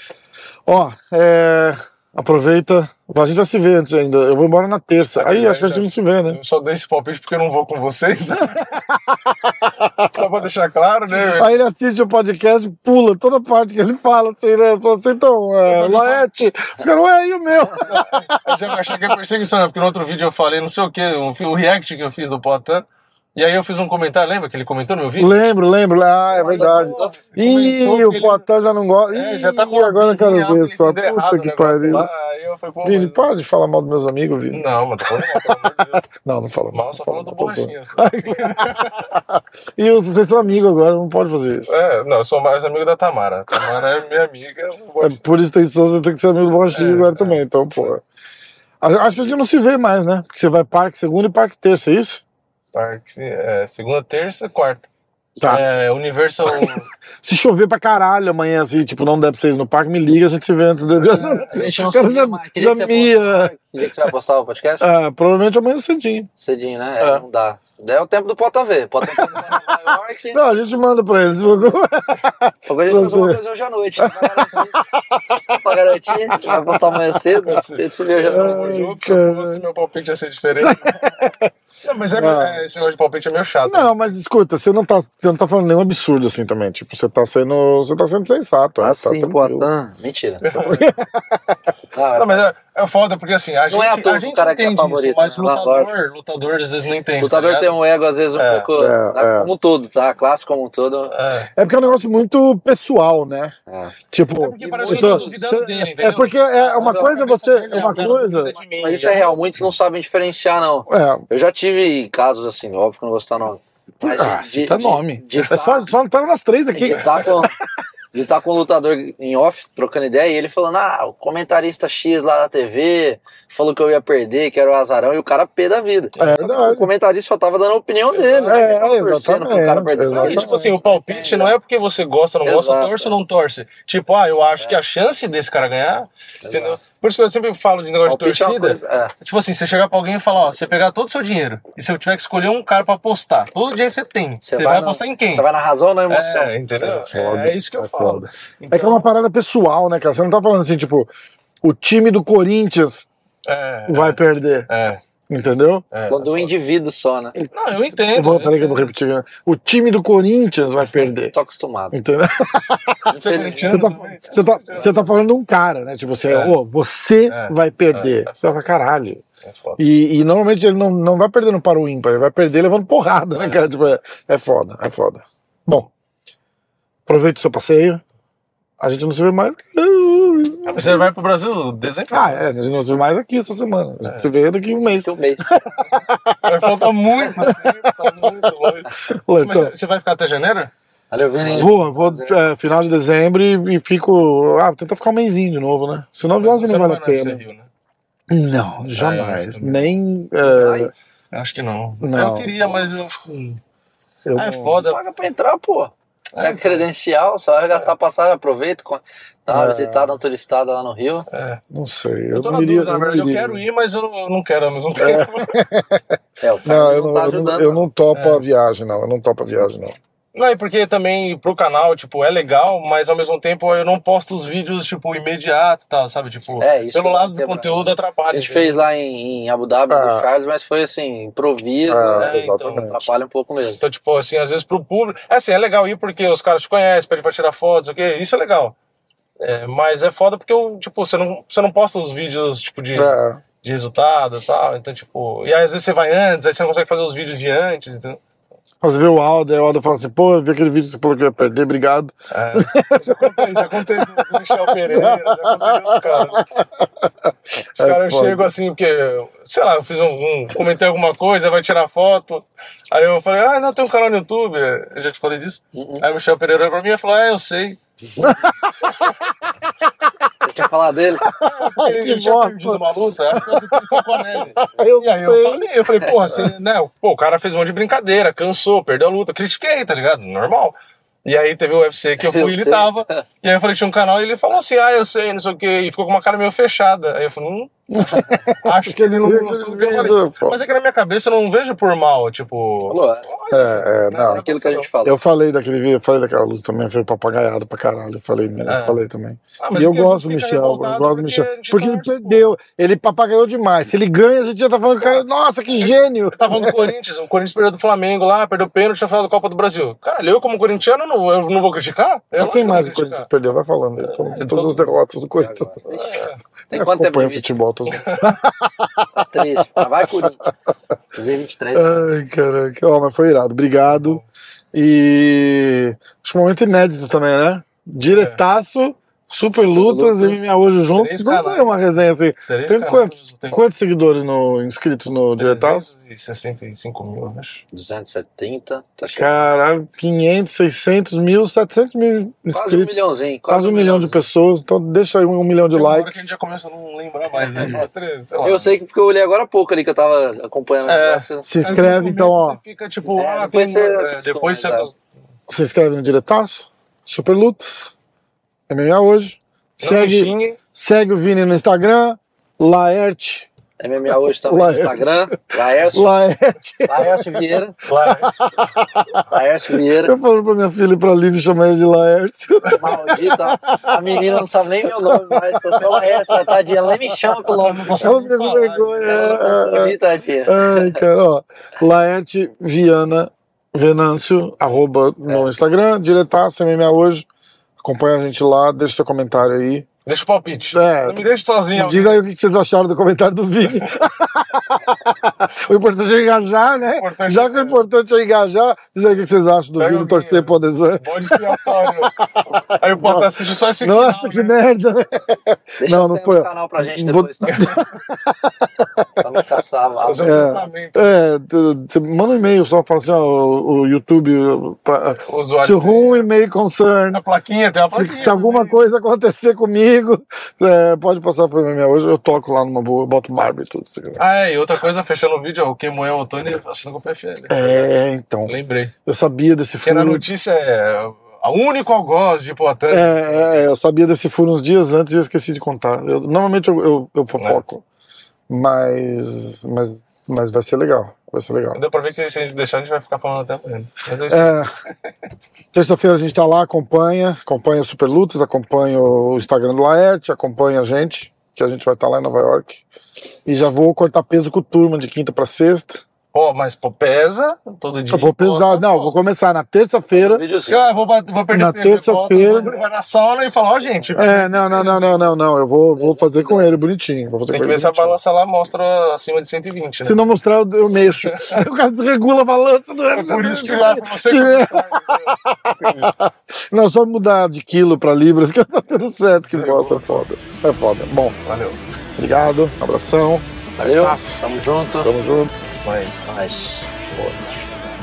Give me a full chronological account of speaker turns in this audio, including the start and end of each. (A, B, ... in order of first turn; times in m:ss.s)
0:00.7-0:06.4 A
0:05.2-0:08.7 B
0:08.4-0:10.1 A
0:10.0-0:11.6 B
0:11.2-0:18.7 A
0:15.7-0:16.2 B
0:17.8-0:25.4 B
0:25.2-0:32.1 A
0:26.3-0:27.2 C
0:26.5-0:28.4 B
0:29.1-0:33.2 B
0:32.8-0:41.7 A
0:34.5-0:36.1 B
0:36.7-0:39.1 B
0:41.7-0:45.2 B
0:45.0-0:48.0 A
0:46.7-0:47.9 B
0:48.8-0:52.2 A
0:52.7-0:54.9 B
0:55.4-0:55.7 A
0:55.4-0:56.9 B
0:56.5-1:03.5 A
1:01.0-1:01.7 B
1:01.5-1:04.9 C
1:04.8-1:06.3 A
1:06.4-1:10.4 C
1:09.0-1:09.5 A
1:10.3-1:13.4 A
1:12.7-1:14.8 C
1:14.0-1:16.8 A
1:15.5-1:18.8 C
1:17.4-1:21.3 B
1:18.3-1:19.6 A
1:20.6-1:21.5 A
1:21.8-1:23.9 B
1:22.1-1:22.6 A
1:23.7-1:29.7 A
1:28.8-1:30.8 C
1:30.4-1:30.8 B
1:30.5-1:31.6 A
1:31.9-1:32.5 C
1:32.1-1:37.8 B
1:33.7-1:35.9 C
1:37.2-1:41.2 C
1:38.4-1:38.7 B
1:38.8-1:39.5 A
1:41.1-1:41.5 B
1:41.6-1:43.5 A
1:43.7-1:44.0 C
1:44.1-1:48.5 A
1:44.4-1:49.5 B
1:44.6-1:45.4 C
1:46.6-1:47.2 C
1:48.8-1:55.9 C
1:50.9-1:51.2 A
1:54.0-1:57.4 A
1:56.7-1:57.6 C
1:58.1-2:11.6 C
2:06.2-2:06.5 B
2:06.2-2:06.9 A
2:08.1-2:08.7 B
2:08.5-2:10.7 A
2:10.1-2:25.5 B
2:12.4-2:13.2 C
2:16.4-2:16.8 C
2:18.1-2:19.1 C
2:24.4-2:26.5 C
2:26.1-2:29.1 B
2:26.8-2:31.1 A
2:31.6-2:33.1 A
2:33.4-2:35.0 B
2:33.9-2:34.7 A
2:35.3-2:35.8 A
2:35.9-2:36.5 B
2:36.1-2:37.4 C
2:37.4-2:38.9 B
2:38.1-2:41.3 A
2:40.8-2:41.1 B
2:41.3-2:42.0 C
2:41.9-2:49.2 A
2:43.1-2:43.9 C
2:43.2-2:45.2 B
2:46.3-2:46.6 B
2:47.3-2:48.4 B
2:49.4-2:49.8 B
2:49.8-2:55.9 A
2:57.1-2:58.0 A
2:58.8-3:01.1 A
3:00.7-3:02.4 B
3:02.1-3:06.6 A
3:04.8-3:05.6 C
3:06.4-3:10.7 B
3:07.3-3:08.2 A
3:09.1-3:09.7 A
3:11.1-3:12.4 C
3:11.4-3:17.4 A
3:16.4-3:17.7 B
3:18.3-3:20.9 A
3:18.9-3:19.9 B
3:20.5-3:20.7 B
3:20.5-3:20.9 C
3:21.3-3:23.6 B
3:22.0-3:22.6 A
3:24.3-3:24.8 A
3:24.4-3:25.0 B
3:24.8-3:31.3 C
3:26.4-3:26.9 B
3:29.5-3:30.2 A
3:31.3-3:31.6 B
3:31.7-3:33.6 A
3:32.3-3:35.6 B
3:35.0-3:36.0 A
3:36.4-3:37.9 C
3:36.6-3:40.0 A
3:38.1-3:38.4 B
3:40.3-3:48.8 B
3:46.6-3:53.8 C
3:49.9-3:50.3 A
3:51.9-3:53.1 A
3:52.2-3:52.9 B
3:53.8-3:58.8 B
3:59.4-4:08.2 B
4:03.0-4:03.4 A
4:08.8-4:16.5 A
4:12.3-4:16.5 B
4:17.8-4:27.8 B
4:17.8-4:18.5 A
4:25.7-4:26.0 C
4:28.2-4:28.9 A
4:30.4-4:31.2 C
4:31.4-4:54.9 B
4:31.4-4:36.5 A
4:42.2-4:43.2 C
4:47.9-4:50.6 A
4:52.9-4:53.3 C
4:53.5-4:54.4 A
4:54.2-4:55.2 C
4:55.0-5:06.9 A
4:58.7-4:59.0 B
4:59.6-5:02.6 B
5:06.4-5:13.3 B
5:12.4-5:15.9 A
5:14.0-5:14.9 B
5:15.4-5:16.2 C
5:15.9-5:16.4 B
5:16.7-5:17.5 C
5:16.7-5:20.2 A
5:17.9-5:18.4 B
5:19.1-5:20.5 C
5:21.1-5:22.2 C
5:21.7-5:24.2 A
5:23.9-5:24.2 B
5:24.7-5:35.9 A
5:28.1-5:28.4 B
5:29.7-5:30.5 C
5:30.9-5:31.9 B
5:32.5-5:33.6 B
5:35.4-5:37.6 B
5:37.7-5:39.4 C
5:39.2-5:46.3 A
5:42.5-5:44.3 C
5:45.7-5:48.7 B
5:47.4-5:47.9 C
5:48.4-5:51.6 C
5:50.9-5:55.0 B
5:51.4-5:52.6 A
5:53.0-5:54.9 C
5:55.5-5:57.9 A
5:58.7-6:03.5 A
5:59.8-6:00.6 B
6:03.8-6:06.1 C
6:04.4-6:09.3 A
6:06.9-6:07.8 C
6:07.9-6:08.7 B
6:09.3-6:10.2 C
6:09.9-6:20.0 A
6:12.8-6:18.1 C
6:17.4-6:19.3 B
6:19.0-6:21.0 C
6:20.5-6:27.3 A
6:25.2-6:25.5 C
6:27.8-6:29.9 A
6:30.1-6:32.2 B
6:30.7-6:49.2 A
6:37.0-6:37.8 B
6:39.8-6:44.6 B
6:45.8-6:47.8 C
6:47.4-6:47.8 B
6:49.2-6:50.6 C
6:50.0-6:51.2 B
6:50.2-6:57.2 A
6:55.2-6:56.3 B
6:57.1-6:58.8 B
6:57.9-7:04.2 A
7:04.2-7:07.9 B
7:07.5-7:08.5 A
7:08.5-7:08.9 B
7:09.1-7:10.2 A
7:09.8-7:13.7 B
7:12.9-7:17.8 A
7:18.5-7:21.8 A
7:21.7-7:24.6 B
7:24.3-7:24.7 A
7:25.7-7:32.8 A
7:33.5-7:36.0 A
7:36.3-7:39.1 B
7:38.1-7:40.4 A
7:40.1-7:40.8 C
7:40.7-7:45.2 B
7:41.5-7:42.8 A
7:44.1-7:48.2 A
7:46.0-7:46.9 C
7:47.5-7:50.3 B
7:50.0-8:01.4 A
7:51.0-7:51.6 B
7:53.1-7:56.1 B
7:59.4-8:00.3 B
8:01.4-8:01.8 B
8:02.2-8:04.4 A
8:03.8-8:05.1 C
8:05.0-8:05.6 A
8:05.8-8:06.3 B
8:06.2-8:06.9 C
8:07.1-8:07.4 A
8:07.5-8:07.8 B